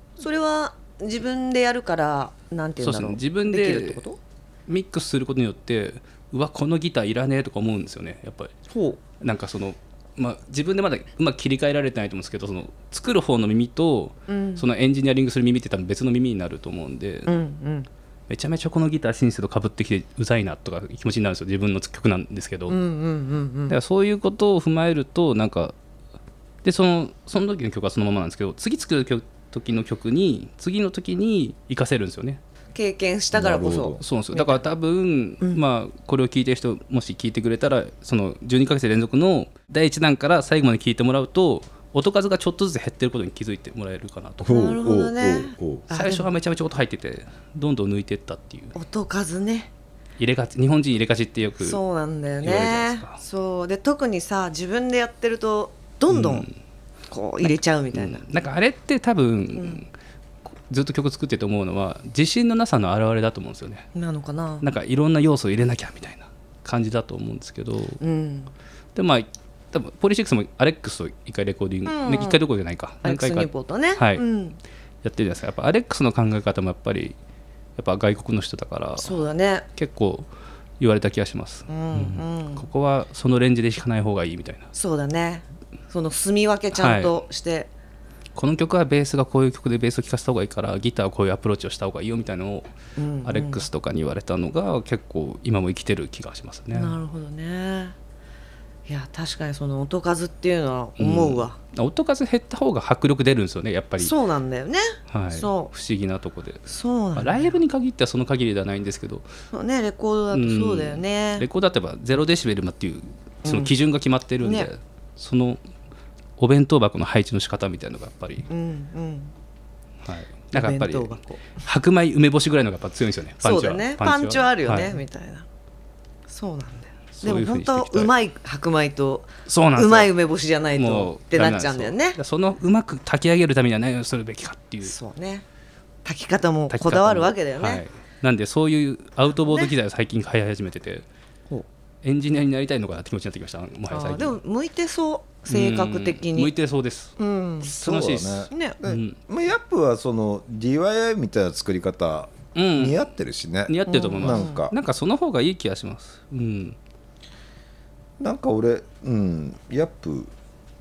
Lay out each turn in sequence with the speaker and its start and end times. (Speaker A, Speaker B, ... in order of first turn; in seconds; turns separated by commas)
Speaker A: 0.2-4.2, Speaker B: 2.8-4.0, Speaker B: 4.7-8.5, Speaker A: 8.7-9.0, Speaker B: 9.2-17.3, Speaker A: 14.3-14.6, Speaker A: 17.2-17.9, Speaker B: 18.3-22.8, Speaker A: 22.7-23.7, Speaker B: 23.7-25.7, Speaker B: 26.6-32.4, Speaker A: 32.7-34.6, Speaker C: 33.3-34.0, Speaker B: 34.0-44.7, Speaker C: 44.4-45.9, Speaker A: 44.4-46.3, Speaker B: 45.9-48.7, Speaker A: 48.7-49.7, Speaker B: 50.2-51.8, Speaker A: 51.6-56.5, Speaker B: 52.4-53.2, Speaker B: 56.1-56.5, Speaker A: 57.1-58.2, Speaker B: 57.4-59.9, Speaker A: 59.5-59.8, Speaker B: 60.7-63.9, Speaker A: 63.9-64.7, Speaker B: 64.6-68.0, Speaker A: 68.0-68.5, Speaker B: 68.9-74.2, Speaker A: 71.8-72.4, Speaker A: 73.0-74.6, Speaker B: 75.0-77.2, Speaker B: 77.8-79.2, Speaker A: 79.0-79.7, Speaker B: 79.8-80.3, Speaker B: 80.8-84.7, Speaker A: 81.7-82.6, Speaker A: 84.7-87.7, Speaker B: 86.7-87.2, Speaker B: 88.3-92.7, Speaker A: 93.0-93.6, Speaker B: 93.2-97.0, Speaker A: 96.7-97.9, Speaker A: 98.9-101.5, Speaker B: 101.0-104.1, Speaker A: 104.0-105.7, Speaker B: 105.1-109.3, Speaker A: 106.7-107.5, Speaker A: 109.5-111.5, Speaker B: 110.3-115.6, Speaker A: 113.4-113.7, Speaker A: 114.4-114.7, Speaker B: 116.4-118.5, Speaker A: 118.5-119.3, Speaker B: 120.0-125.0, Speaker A: 120.5-121.5, Speaker A: 123.4-125.5, Speaker A: 126.3-132.2, Speaker B: 127.1-128.1, Speaker B: 129.5-130.1, Speaker B: 130.8-134.9, Speaker A: 134.8-135.4, Speaker A: 136.0-137.8, Speaker B: 136.7-141.0, Speaker A: 139.3-139.7, Speaker B: 142.0-144.4, Speaker A: 143.9-146.5, Speaker B: 145.5-147.2, Speaker A: 147.2-147.7, Speaker C: 147.6-154.7, Speaker B: 147.7-149.2, Speaker A: 148.5-148.8, Speaker B: 152.5-153.0, Speaker B: 153.7-156.8, Speaker A: 153.9-154.6, Speaker C: 158.2-160.3